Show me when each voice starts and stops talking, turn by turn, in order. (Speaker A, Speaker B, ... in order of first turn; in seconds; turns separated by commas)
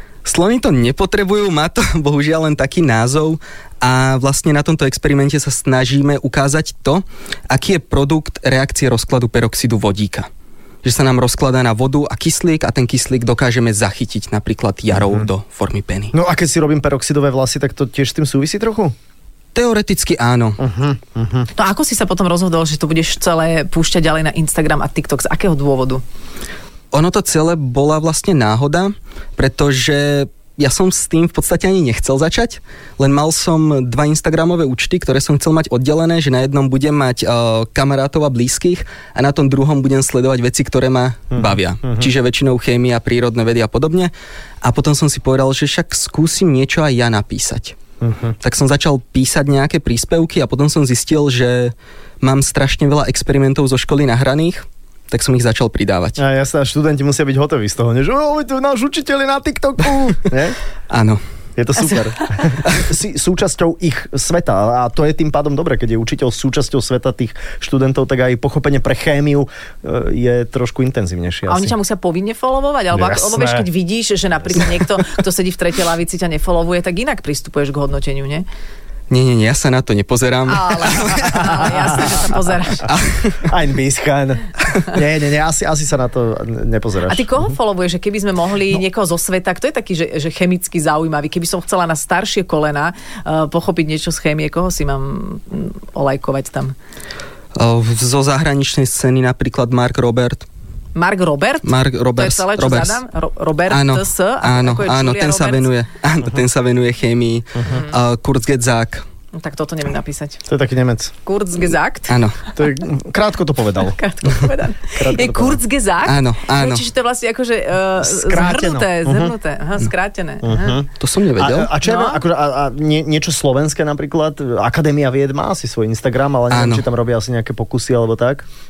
Speaker A: 0.2-10.3, Speaker A: 10.8-16.1, Speaker B: 14.9-15.3, Speaker B: 16.1-18.9, Speaker A: 19.6-20.6, Speaker B: 20.6-21.5, Speaker C: 21.6-26.0, Speaker A: 26.9-44.1, Speaker B: 41.3-42.1, Speaker A: 44.6-47.8, Speaker B: 48.0-48.4, Speaker A: 48.4-56.2, Speaker B: 56.2-60.6, Speaker A: 60.9-61.2, Speaker B: 61.6-71.8, Speaker C: 71.5-78.5, Speaker B: 72.9-73.7, Speaker A: 79.1-82.2, Speaker C: 80.5-83.0, Speaker B: 81.4-82.1, Speaker A: 82.9-83.4, Speaker B: 83.4-87.3, Speaker C: 87.1-96.8, Speaker A: 97.6-100.5, Speaker C: 101.0-105.7, Speaker A: 101.6-103.0, Speaker A: 103.7-109.0, Speaker C: 107.7-107.9, Speaker C: 109.3-110.4, Speaker B: 110.5-111.1, Speaker C: 111.2-112.2, Speaker A: 112.1-112.4, Speaker B: 112.6-114.0, Speaker C: 113.8-120.8, Speaker B: 114.9-115.6, Speaker A: 116.0-116.9, Speaker B: 118.0-119.3, Speaker B: 120.4-128.4, Speaker A: 121.0-121.7, Speaker C: 121.8-122.2, Speaker A: 126.5-126.8